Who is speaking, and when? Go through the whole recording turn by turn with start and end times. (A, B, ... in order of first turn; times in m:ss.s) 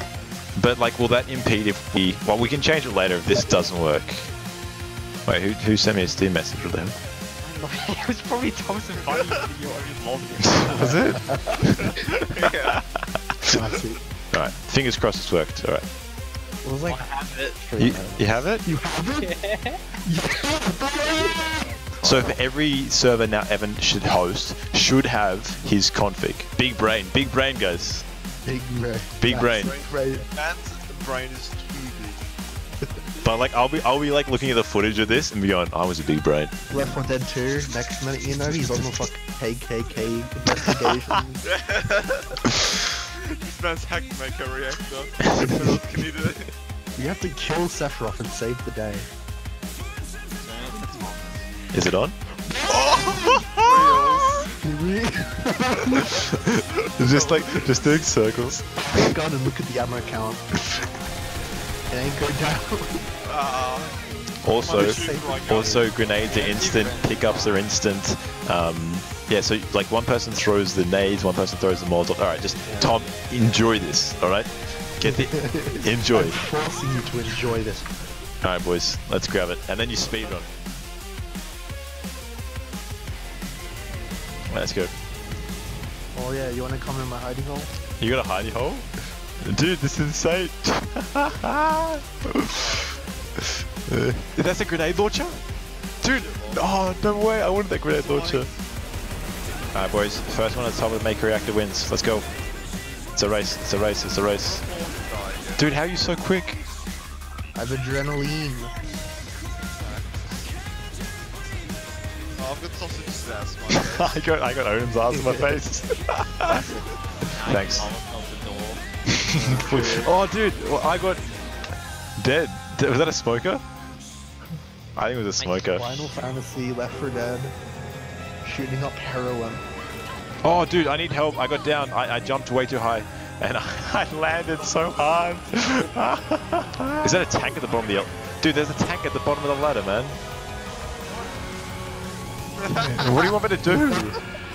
0:00.6-0:04.3 A
0:05.3-0:07.0 A
0:07.4-0:11.2 B
0:10.4-0:12.0 A
0:10.7-0:11.9 C
0:12.0-0:12.8 D
0:13.5-0:14.0 C
0:14.3-0:15.9 A
0:16.6-0:19.3 C
0:16.9-0:17.6 B
0:17.8-0:18.6 A
0:19.2-0:19.8 B
0:20.0-0:21.7 C
0:21.0-0:22.2 B
0:22.0-0:28.1 A
0:28.5-0:30.2 C
0:29.2-0:29.8 A
0:29.5-0:32.3 D
0:33.2-0:37.0 A
0:36.7-0:41.4 C
0:41.5-0:46.5 D
0:47.0-0:49.1 C
0:50.4-0:51.5 D
0:51.7-0:52.2 A
0:52.5-0:53.6 C
0:52.8-0:53.9 A
0:53.1-0:54.5 D
0:54.6-0:56.3 C
0:56.0-0:59.1 A
0:57.0-0:57.8 D
0:58.5-1:00.4 C
1:01.9-1:03.0 C
1:03.2-1:04.0 D
1:04.4-1:16.4 A
1:04.6-1:07.0 D
1:04.7-1:05.8 C
1:06.4-1:07.5 B
1:12.6-1:13.0 C
1:15.0-1:17.9 C
1:18.4-1:20.5 A
1:24.5-1:24.9 A
1:26.1-1:27.7 C
1:28.0-1:28.9 A
1:29.4-1:32.6 A
1:32.4-1:33.0 D
1:33.9-1:35.4 A
1:36.0-1:38.5 A
1:36.0-1:36.8 D
1:37.9-1:38.6 D
1:39.7-1:42.3 A
1:43.2-1:44.6 A
1:44.3-1:45.7 D
1:45.6-1:46.6 A
1:47.6-1:48.7 C
1:49.8-1:50.3 D
1:52.4-1:54.2 D
1:53.7-1:56.7 A
1:55.1-1:55.6 C
1:56.5-1:56.8 C
1:57.2-1:58.8 B
1:57.4-1:57.9 A
1:59.1-2:01.2 A
1:59.3-2:00.2 C
2:02.2-2:03.6 A
2:05.0-2:06.1 A
2:05.4-2:05.8 B
2:05.7-2:07.5 C
2:08.4-2:09.6 C
2:10.4-2:20.2 A
2:17.7-2:18.1 D
2:22.6-2:23.3 D
2:22.8-2:24.2 A
2:23.7-2:24.2 C